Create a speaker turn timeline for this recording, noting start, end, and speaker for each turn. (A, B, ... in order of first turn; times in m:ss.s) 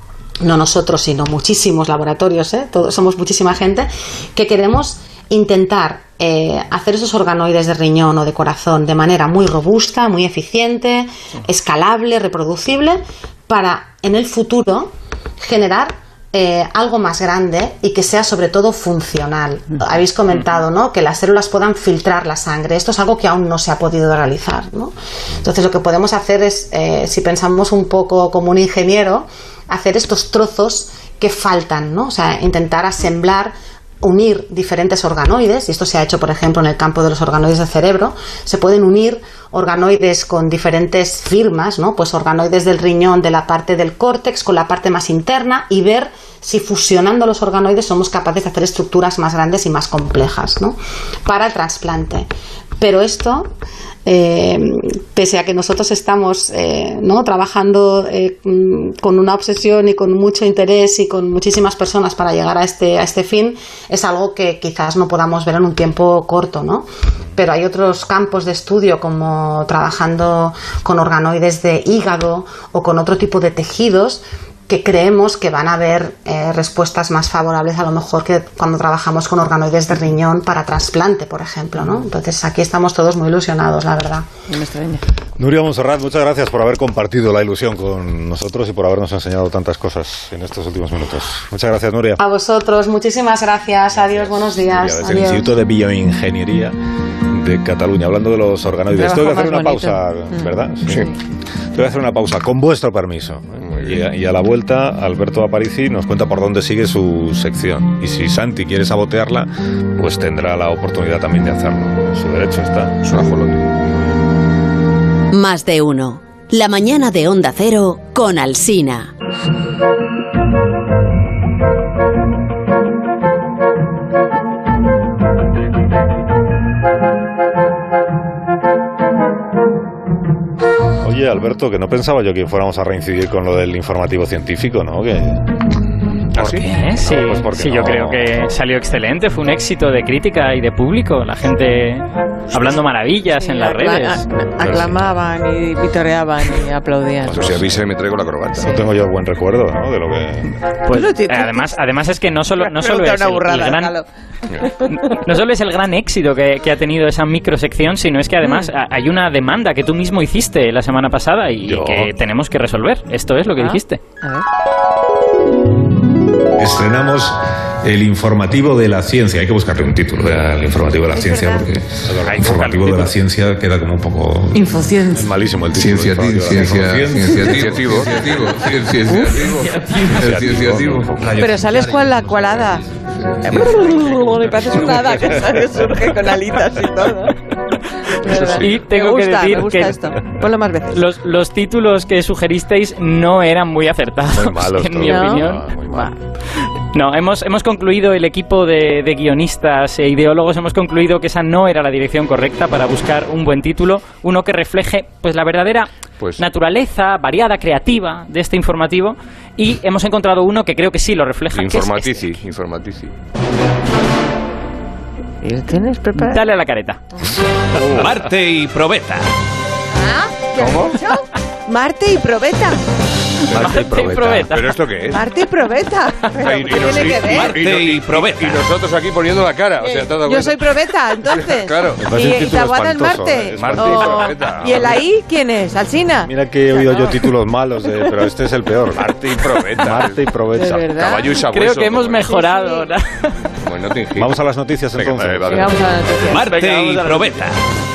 0:00.4-0:52.3 A
0:52.8-0:53.5 A
0:54.0-1:24.3 A
1:24.5-1:25.0 B
1:25.4-1:32.2 C
1:32.2-1:35.5 A
1:34.0-1:36.8 C
1:37.3-1:41.1 C
1:38.9-1:40.5 B
1:41.7-1:53.0 C
1:43.6-1:44.0 D
1:53.0-1:53.6 D
1:55.3-1:59.1 E
2:11.0-2:15.4 C
2:16.4-2:18.2 C
2:16.4-2:24.2 F
2:22.5-2:22.8 B
2:23.4-2:27.4 B
2:24.6-2:25.0 C
2:27.2-2:27.8 C
2:27.3-2:28.8 D
2:28.5-2:30.6 C
2:30.8-2:33.9 F
2:30.9-2:31.8 B
2:32.5-2:34.1 B
2:34.6-2:35.2 B
2:34.8-2:44.0 F
2:38.4-2:38.7 B
2:41.6-2:42.1 C
2:43.6-2:44.4 B
2:46.6-2:58.4 C
2:51.1-2:51.7 B
2:52.2-2:53.1 F
2:54.5-2:55.3 B
2:55.7-3:01.4 D
2:59.0-3:00.2 B
3:00.0-3:01.9 C
3:01.4-3:02.8 B
3:03.3-3:03.7 D
3:03.4-3:07.4 B
3:07.7-3:10.2 F
3:08.1-3:11.0 B
3:08.2-3:08.8 D
3:10.9-3:15.7 F
3:14.3-3:16.2 C
3:15.0-3:16.1 B
3:16.9-3:32.3 F
3:31.5-3:33.1 D
3:35.4-3:36.5 B
3:36.1-3:37.0 F
3:37.7-3:38.1 D
3:37.8-3:39.2 G
3:39.9-3:42.8 B
3:40.6-3:41.0 D
3:43.4-3:44.8 F
3:43.5-3:44.5 C
3:43.5-3:43.8 D
3:44.5-3:45.2 D
3:45.1-3:47.6 B
3:46.3-3:52.1 D
3:47.2-3:48.6 G
3:49.8-3:56.3 B
3:52.0-3:55.0 C
3:53.5-3:55.0 D
3:56.2-4:00.9 C
3:56.9-3:57.2 B
3:59.0-4:00.2 D
4:00.5-4:01.3 B
4:01.0-4:02.3 D
4:01.4-4:03.4 F
4:02.2-4:02.9 B
4:03.6-4:04.4 D
4:04.1-4:05.8 C
4:04.9-4:05.9 D
4:05.5-4:06.8 B
4:06.2-4:07.6 G
4:06.5-4:07.3 F